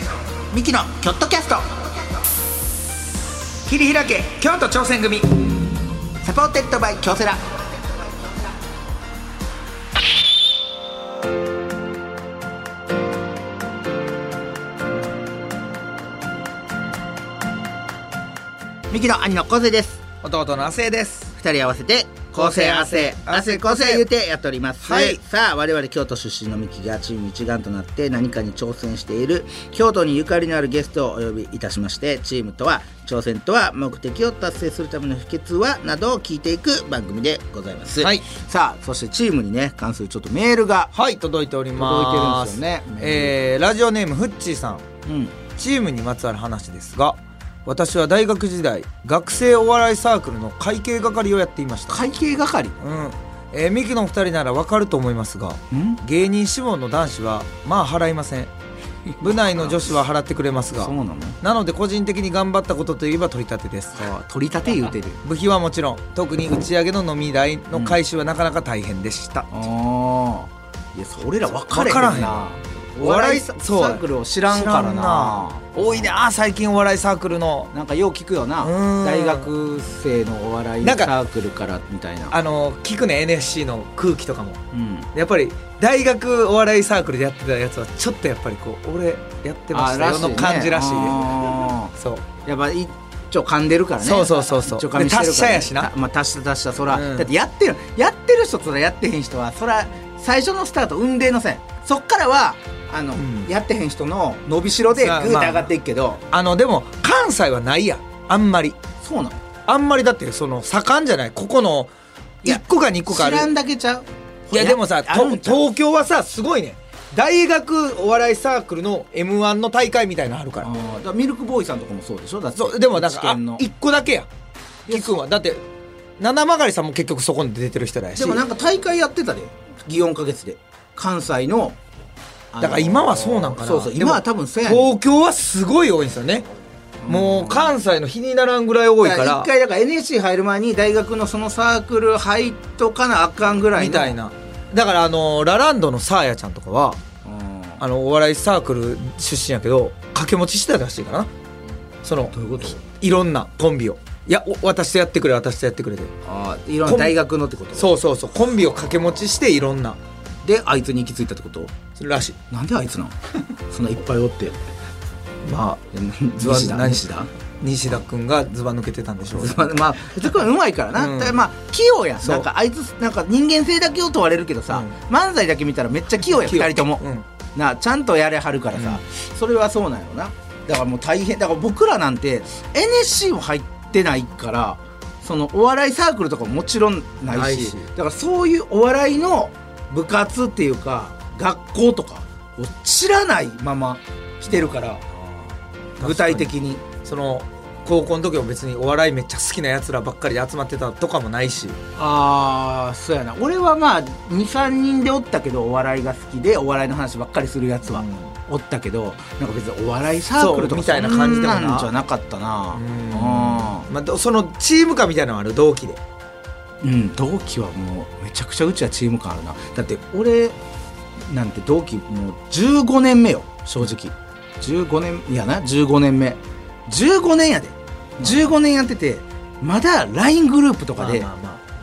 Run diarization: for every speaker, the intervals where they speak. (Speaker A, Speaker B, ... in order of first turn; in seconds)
Speaker A: 0.3-1.9, 6.2-7.5, 18.9-20.0, 21.4-40.9, 41.8-43.4, 45.1-45.4, 51.9-52.8, 55.7-56.0, 59.1-59.8, 60.8-61.4, 64.0-65.2, 69.5-76.1, 77.7-82.4, 84.7-85.1, 89.7-106.2, 109.0-109.4, 112.4-115.6, 120.6-123.6, 124.9-125.2, 128.2-131.8, 132.5-134.9, 137.0-137.8, 139.0-144.2, 147.2-147.8, 152.3-152.8, 156.3-157.9, 160.4-161.8, 162.5-163.2, 163.7-164.6, 165.9-167.3, 169.3-177.0, 177.6-195.0, 196.0-196.8, 202.0-213.9, 216.8-220.6, 221.3-231.3
Speaker B: 3.7-5.3, 20.2-21.3, 22.4-24.1, 24.8-25.2, 40.9-44.9, 45.5-52.0, 52.8-58.5, 59.2-64.1, 65.2-69.5, 71.7-72.5, 73.0-77.7, 78.6-79.5, 80.8-81.1, 82.3-84.6, 85.2-92.3, 94.0-95.9, 96.9-97.3, 103.2-103.5, 105.0-105.7, 106.3-108.8, 109.7-111.9, 112.4-113.5, 114.5-120.7, 122.6-124.3, 124.9-125.6, 126.2-128.4, 132.6-136.5, 137.1-139.5, 143.8-147.0, 147.8-151.3, 152.0-156.1, 156.9-157.2, 157.8-160.0, 162.0-162.4, 165.4-165.8, 166.4-167.1, 167.6-169.7, 170.9-171.4, 176.3-177.2, 187.3-187.9, 196.0-201.8, 207.9-208.3, 210.4-211.9, 212.8-216.0, 231.0-231.6